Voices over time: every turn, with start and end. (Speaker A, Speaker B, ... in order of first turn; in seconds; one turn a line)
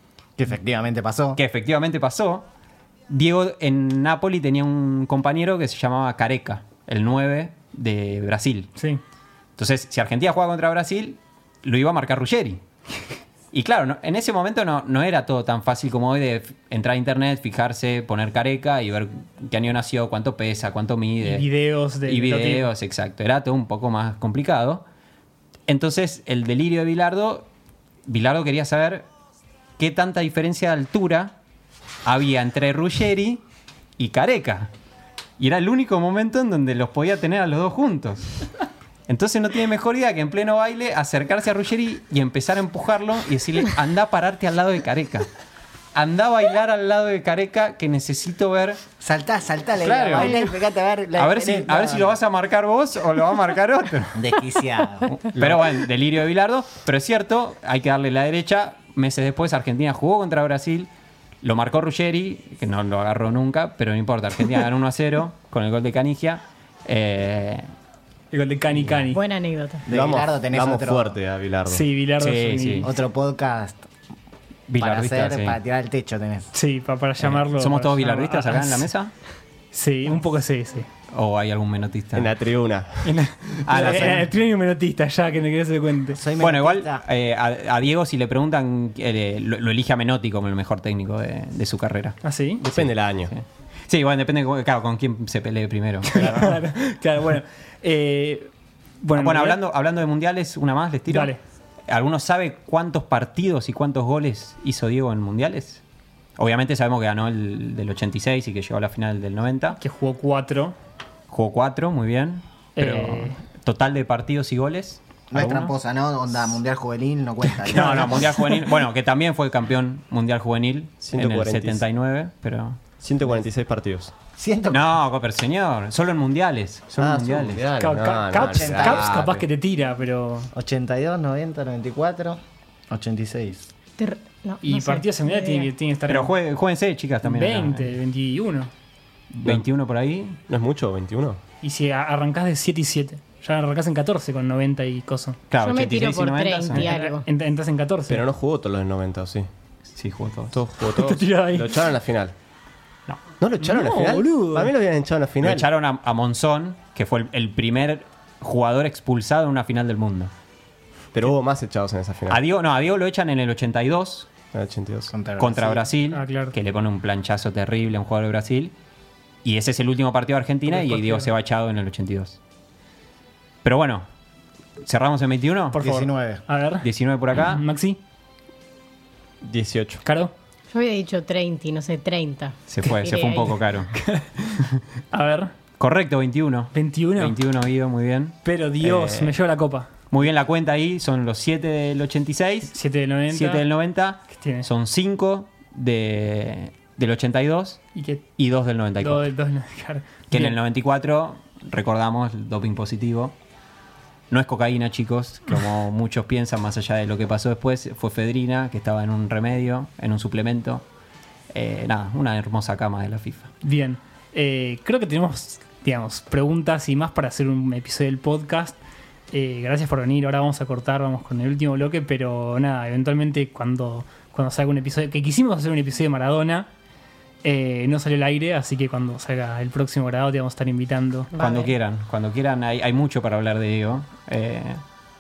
Speaker A: 0.4-1.4
Speaker B: 1.4-2.5
Speaker B: 3.1-8.7
Speaker C: 8.8-9.0
Speaker B: 9.6-12.6
Speaker B: 13.5-21.5
Speaker C: 21.2-22.7
Speaker B: 22.0-24.9
Speaker B: 25.7-27.5
Speaker B: 28.1-29.1
Speaker B: 29.8-31.4
Speaker B: 32.0-33.4
Speaker B: 34.0-34.7
Speaker B: 35.4-38.3
Speaker B: 39.1-45.3
Speaker B: 45.9-48.8
Speaker A: 49.0-52.2
Speaker B: 49.8-50.5
Speaker B: 51.1-54.5
Speaker A: 54.1-55.6
Speaker B: 55.1-60.9
Speaker B: 61.4-67.7
Speaker C: 68.3-69.2
Speaker B: 68.7-69.0
Speaker D: 69.1-69.9
Speaker A: 69.9-71.2
Speaker E: 69.9-71.9
Speaker C: 71.7-72.9
Speaker B: 72.2-72.9
Speaker A: 72.8-73.9
Speaker B: 74.7-75.6
Speaker A: 74.8-76.5
Speaker C: 76.5-78.9
Speaker B: 77.2-79.1
Speaker C: 79.7-80.9
Speaker B: 81.1-82.3
Speaker E: 82.1-83.2
Speaker C: 83.0-86.2
Speaker B: 83.7-84.3
Speaker A: 86.1-87.0
Speaker B: 86.4-96.6
Speaker C: 92.2-92.6
Speaker E: 92.7-93.3
Speaker C: 96.1-98.5
Speaker C: 99.0-99.6
Speaker B: 99.2-101.3
Speaker C: 101.1-101.4
Speaker B: 101.9-105.8
Speaker B: 106.4-109.8
Speaker C: 109.8-110.8
Speaker B: 111.3-115.7
Speaker C: 112.8-113.4
Speaker A: 115.3-118.3
Speaker B: 117.7-122.9
Speaker C: 117.7-118.7
Speaker E: 121.0-121.8
Speaker E: 123.0-124.1
Speaker A: 124.4-124.9
Speaker B: 124.7-127.7
Speaker A: 127.0-127.5
Speaker E: 127.0-129.4
Speaker C: 127.8-130.5
Speaker A: 128.4-129.1
Speaker A: 130.5-133.7
Speaker D: 134.0-135.7
Speaker C: 134.6-136.3
Speaker B: 136.1-137.9
Speaker C: 137.2-138.7
Speaker B: 139.3-140.4
Speaker E: 140.5-141.4
Speaker C: 141.6-145.4
Speaker B: 145.5-146.9
Speaker D: 145.6-147.3
Speaker C: 146.7-148.2
Speaker E: 148.1-149.5
Speaker B: 149.9-150.6
Speaker E: 150.5-152.3
Speaker C: 150.8-151.7
Speaker E: 153.4-155.7
Speaker C: 153.6-154.7
Speaker B: 155.4-160.3
Speaker E: 161.1-162.4
Speaker B: 162.3-164.3
Speaker E: 164.5-165.1
Speaker A: 165.1-165.9
Speaker B: 165.4-168.7
Speaker C: 166.1-166.6
Speaker B: 169.4-172.4
Speaker C: 170.7-171.3
Speaker B: 173.6-174.1
Speaker B: 174.8-175.8
Speaker C: 175.7-178.0
Speaker A: 175.7-176.4
Speaker B: 176.8-177.7
Speaker E: 179.4-180.0
Speaker C: 180.0-180.3
Speaker D: 180.7-183.6
Speaker B: 182.7-183.9
Speaker C: 183.9-185.5
Speaker B: 185.8-189.4
Speaker C: 186.7-187.4
Speaker C: 188.4-189.9
Speaker B: 190.1-192.8
Speaker C: 192.7-193.7
Speaker B: 193.3-197.8
Speaker C: 194.3-194.7
Speaker C: 197.9-198.2
Speaker B: 198.4-199.3
Speaker C: 199.0-200.6
Speaker B: 200.3-203.3
Speaker B: 204.3-210.8
Speaker B: 211.5-213.5
Speaker C: 213.6-218.8
Speaker C: 219.3-226.7
Speaker C: 227.4-231.3
Speaker D: 231.3-231.7
Speaker B: 231.4-234.8